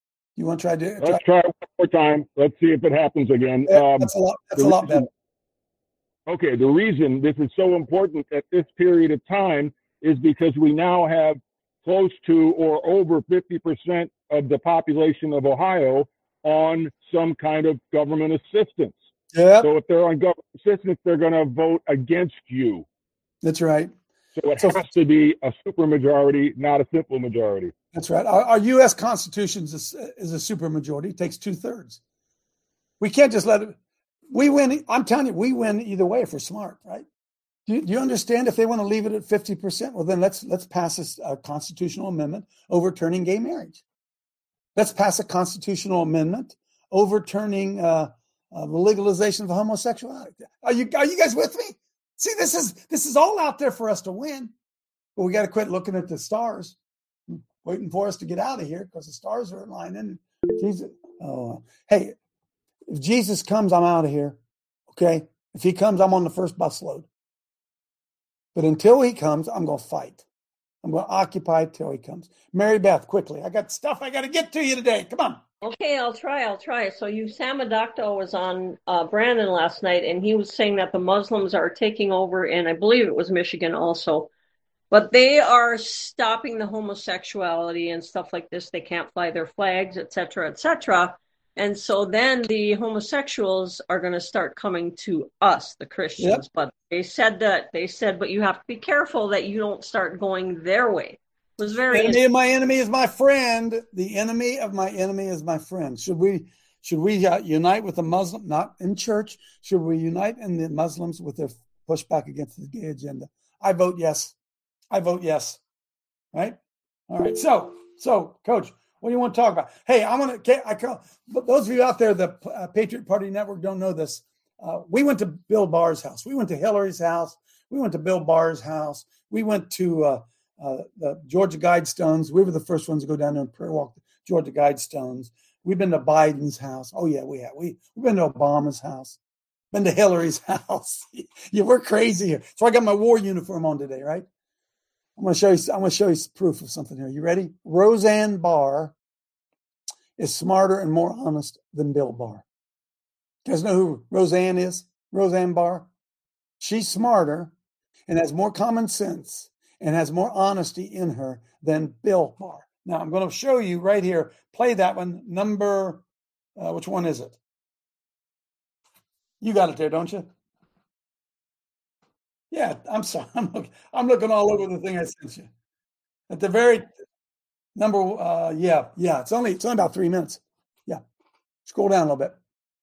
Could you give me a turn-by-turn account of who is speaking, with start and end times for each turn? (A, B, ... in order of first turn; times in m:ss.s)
0:00.4-0:01.2 A
0:01.0-0:05.0 B
0:03.7-0:05.1 A
0:06.3-0:19.0 B
0:19.3-0:19.7 A
0:19.6-0:22.8 B
0:23.4-0:23.9 A
0:24.4-0:27.7 B
0:24.6-0:24.8 A
0:27.9-0:32.0 A
0:33.0-0:33.8 A
0:34.3-0:37.0 A
0:37.7-0:43.8 A
0:44.8-0:54.5 A
0:55.2-0:56.8 A
0:57.6-1:02.1 A
1:02.9-1:04.4 A
1:04.9-1:07.1 A
1:08.5-1:10.2 A
1:10.8-1:15.4 A
1:15.6-1:24.3 C
1:24.9-1:42.2 C
1:36.2-1:36.4 A
1:41.9-1:54.3 A
1:54.9-1:55.6 A
1:57.1-2:19.2 A
2:19.7-2:24.3 A
2:25.2-2:28.9 A
2:30.2-2:32.4 A
2:33.4-2:35.9 A
2:36.6-2:37.5 A
2:38.1-2:46.0 A
2:46.6-2:47.4 A
2:49.4-2:50.3 A
2:52.5-2:55.5 A
2:56.3-2:56.9 A
2:57.8-3:01.0 A
3:01.7-3:02.4 A